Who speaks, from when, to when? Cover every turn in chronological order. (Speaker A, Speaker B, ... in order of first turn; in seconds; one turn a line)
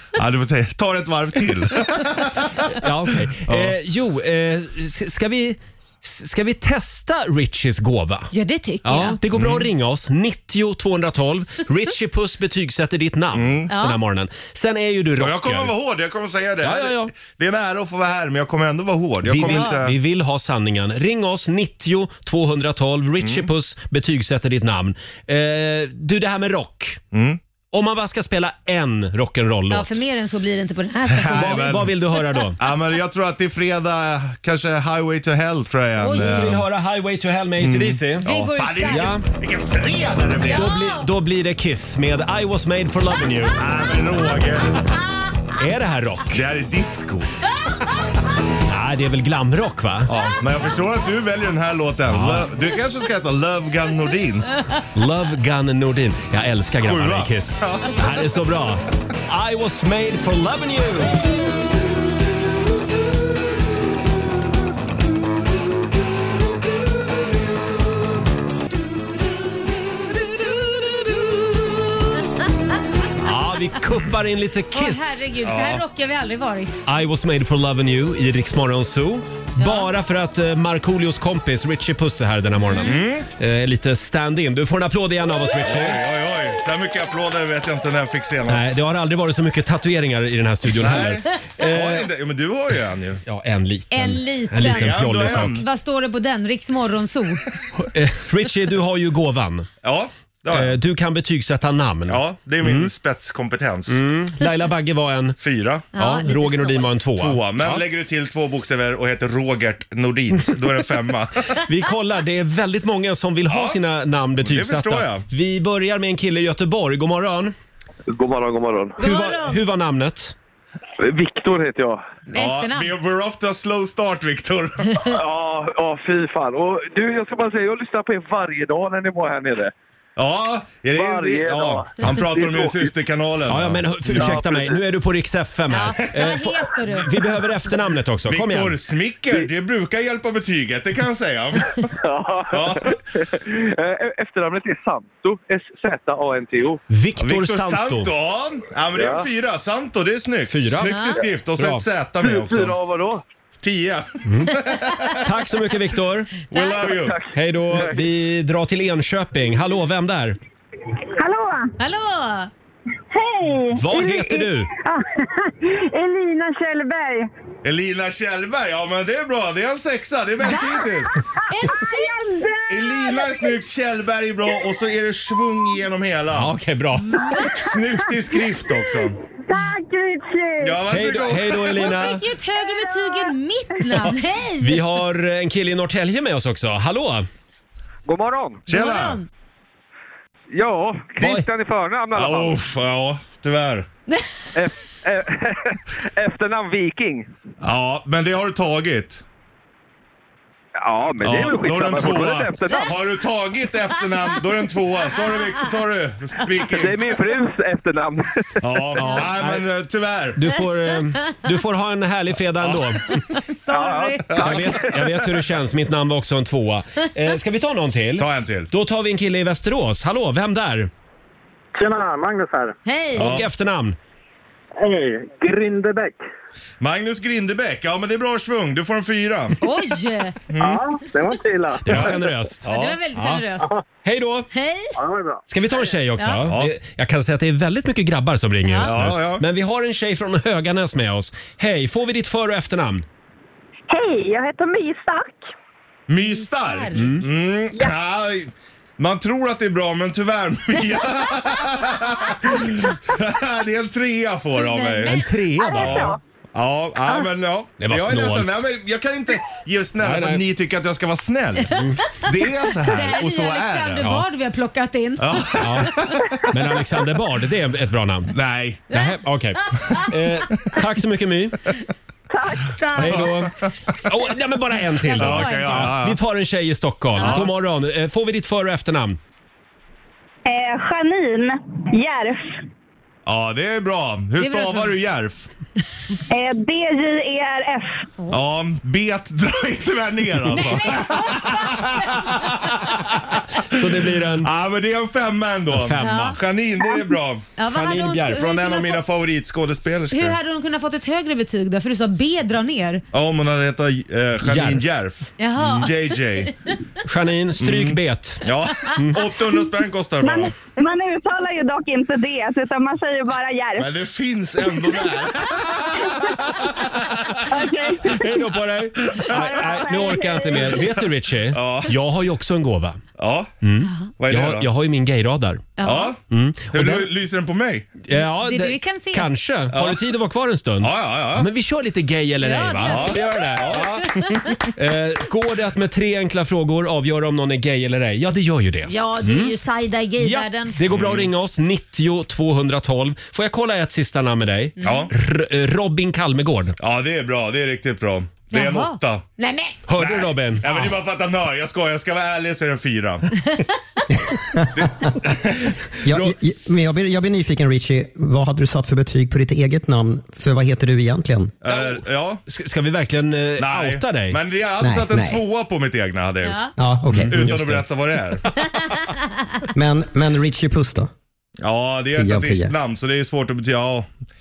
Speaker A: 0.1-2.7
Speaker B: 2.8-8.3
Speaker A: 3.4-3.8
Speaker C: 8.3-9.2
Speaker B: 8.8-15.7
Speaker A: 9.3-9.7
Speaker A: 13.3-13.7
Speaker C: 13.7-14.0
Speaker A: 15.1-19.9
Speaker B: 16.6-17.1
Speaker B: 19.2-27.0
Speaker C: 19.4-19.8
Speaker A: 23.2-23.5
Speaker A: 27.1-27.4
Speaker B: 27.7-30.0
Speaker C: 29.7-32.5
Speaker A: 31.1-31.9
Speaker B: 31.3-32.6
Speaker A: 32.6-36.7
Speaker C: 36.0-36.4
Speaker B: 36.0-38.2
Speaker A: 37.6-40.8
Speaker C: 38.2-39.2
Speaker B: 38.9-39.2
Speaker C: 40.4-41.1
Speaker B: 40.5-43.6
Speaker A: 43.6-44.8
Speaker B: 45.5-46.3
Speaker A: 46.3-47.3
Speaker B: 48.6-50.1
Speaker A: 50.1-54.5
Speaker B: 52.1-52.5
Speaker B: 54.9-61.3
Speaker A: 56.8-58.0
Speaker B: 73.2-75.3
Speaker C: 74.7-76.8
Speaker A: 75.4-75.8
Speaker B: 76.8-86.0
Speaker C: 79.6-79.9
Speaker C: 82.5-83.0
Speaker A: 82.8-83.3
Speaker A: 85.6-88.8
Speaker B: 88.5-92.1
Speaker A: 90.7-93.2
Speaker B: 93.2-95.6
Speaker C: 93.9-97.4
Speaker A: 94.6-95.7
Speaker B: 97.7-99.7
Speaker A: 99.8-100.8
Speaker B: 100.5-102.9
Speaker A: 102.1-104.0
Speaker B: 103.9-105.4
Speaker A: 105.4-105.9
Speaker C: 105.9-107.0
Speaker B: 105.9-107.8
Speaker A: 107.2-111.6
Speaker B: 111.6-117.5
Speaker A: 113.5-113.8
Speaker A: 114.4-115.2
Speaker D: 118.1-119.0
Speaker C: 119.0-119.6
Speaker B: 119.0-120.3
Speaker D: 121.0-122.0
Speaker C: 122.3-122.9
Speaker A: 122.3-125.1
Speaker D: 125.0-129.7
Speaker A: 130.2-134.5
Speaker D: 130.9-132.9
Speaker B: 133.5-138.7
Speaker D: 134.1-134.8
Speaker C: 135.7-137.3
Speaker A: 138.2-141.9
Speaker D: 142.0-146.8
Speaker A: 142.5-142.9
Speaker B: 146.9-148.1
Speaker A: 147.2-152.8
Speaker D: 148.9-149.3
Speaker B: 150.5-151.0
Speaker C: 150.8-151.2
Speaker B: 151.6-151.8
Speaker D: 152.2-153.2
Speaker A: 153.6-155.3
Speaker B: 154.3-154.5
Speaker B: 155.2-156.4
Speaker A: 156.5-157.2
Speaker C: 156.5-156.8
Speaker D: 156.7-158.0
Speaker B: 157.3-160.4
Speaker E: 161.2-161.7
Speaker C: 161.8-162.5
Speaker E: 163.1-165.0
Speaker B: 163.7-164.7
Speaker E: 165.6-167.3
Speaker A: 167.6-171.1
Speaker C: 171.5-172.4
Speaker E: 171.6-173.2
Speaker A: 172.7-176.5
Speaker B: 176.3-177.3
Speaker C: 177.2-177.6
Speaker A: 177.5-179.2
Speaker E: 179.5-180.8
Speaker A: 180.6-181.9
Speaker B: 180.9-182.2
Speaker C: 181.7-184.8
Speaker B: 184.6-187.3
Speaker D: 188.1-188.7
Speaker A: 188.7-189.2
Speaker C: 188.7-189.2
Speaker D: 190.5-192.6
Speaker B: 191.2-191.5
Speaker A: 192.1-193.9
Speaker C: 194.1-194.4
Speaker D: 194.5-197.3
Speaker A: 197.6-199.2
Speaker D: 200.8-203.0
Speaker A: 201.2-207.1
Speaker D: 206.7-208.7
Speaker A: 208.6-210.4
Speaker B: 209.0-209.6
Speaker C: 209.0-209.3
Speaker B: 210.3-213.1
Speaker A: 212.6-212.9
Speaker C: 213.1-214.8
Speaker D: 213.7-215.3
Speaker B: 214.4-220.9
Speaker A: 218.2-218.7
Speaker F: 221.7-222.8
Speaker C: 222.8-223.4
Speaker A: 223.2-223.5
Speaker B: 223.2-224.0
Speaker F: 224.8-226.2
Speaker A: 226.8-229.6
Speaker C: 229.6-230.4
Speaker A: 230.5-230.8
Speaker F: 230.6-232.1
Speaker B: 231.8-233.4
Speaker A: 231.9-233.0
Speaker C: 232.7-233.7
Speaker B: 234.0-234.5
Speaker C: 234.5-235.0
Speaker F: 234.9-235.4
Speaker B: 235.5-243.0
Speaker C: 236.2-236.5
Speaker A: 236.4-236.7
Speaker C: 238.6-238.9
Speaker A: 238.8-239.4
Speaker E: 243.9-245.4
Speaker A: 246.1-264.1
Speaker C: 246.3-247.2
Speaker B: 246.9-247.2
Speaker C: 254.6-256.1
Speaker B: 255.1-256.1
Speaker B: 257.8-258.6
Speaker B: 260.0-260.4
Speaker B: 261.7-262.0
Speaker C: 262.8-266.4
Speaker A: 265.2-266.4
Speaker B: 265.6-265.9
Speaker B: 266.5-268.3
Speaker A: 268.3-268.9
Speaker C: 268.9-270.7
Speaker B: 268.9-271.6
Speaker E: 272.3-272.7
Speaker C: 272.7-273.3
Speaker B: 272.9-279.2
Speaker A: 273.0-274.0
Speaker C: 275.0-276.0
Speaker A: 275.1-276.2
Speaker C: 277.1-277.5
Speaker A: 277.1-277.5
Speaker E: 280.4-282.4
Speaker A: 283.2-285.5
Speaker C: 284.4-284.9
Speaker E: 286.3-287.9
Speaker A: 288.3-297.5
Speaker C: 290.5-292.4
Speaker B: 293.7-294.5
Speaker B: 295.7-296.4
Speaker C: 296.0-296.4
Speaker C: 297.6-299.0
Speaker B: 297.7-298.4
Speaker A: 298.3-300.4
Speaker C: 300.1-303.0
Speaker A: 303.1-306.5
Speaker B: 304.4-304.8
Speaker C: 305.4-306.2
Speaker B: 307.0-309.2
Speaker A: 307.6-310.5
Speaker E: 310.2-313.9
Speaker A: 313.8-317.5
Speaker E: 314.8-315.1
Speaker E: 317.4-318.4
Speaker B: 318.1-323.0
Speaker A: 318.9-319.9
Speaker E: 319.3-320.9
Speaker A: 321.5-322.0
Speaker A: 323.2-323.5
Speaker B: 323.6-325.7
Speaker A: 324.2-324.7
Speaker C: 325.8-326.1
Speaker A: 325.8-326.2
Speaker B: 326.3-327.1
Speaker A: 326.7-327.9
Speaker B: 328.1-339.5
Speaker C: 328.1-329.3
Speaker A: 329.7-330.0
Speaker A: 330.8-331.5
Speaker C: 332.4-334.6
Speaker A: 332.8-334.0
Speaker C: 338.9-340.8
Speaker B: 340.2-346.8
Speaker A: 340.9-341.3
Speaker C: 344.8-345.1
Speaker A: 344.8-345.1
Speaker A: 346.8-349.2
Speaker C: 348.5-349.8
Speaker B: 349.9-351.0
Speaker A: 349.9-353.3
Speaker A: 354.8-355.6
Speaker G: 356.0-361.5
Speaker B: 356.1-356.4
Speaker A: 361.6-362.4
Speaker B: 361.7-364.4
Speaker A: 363.6-366.7
Speaker G: 364.8-365.4
Speaker C: 366.4-366.7
Speaker G: 366.8-367.5
Speaker B: 367.1-367.8
Speaker A: 367.2-368.4
Speaker C: 368.6-369.1
Speaker G: 369.7-371.1
Speaker A: 371.6-374.1
Speaker G: 372.1-372.7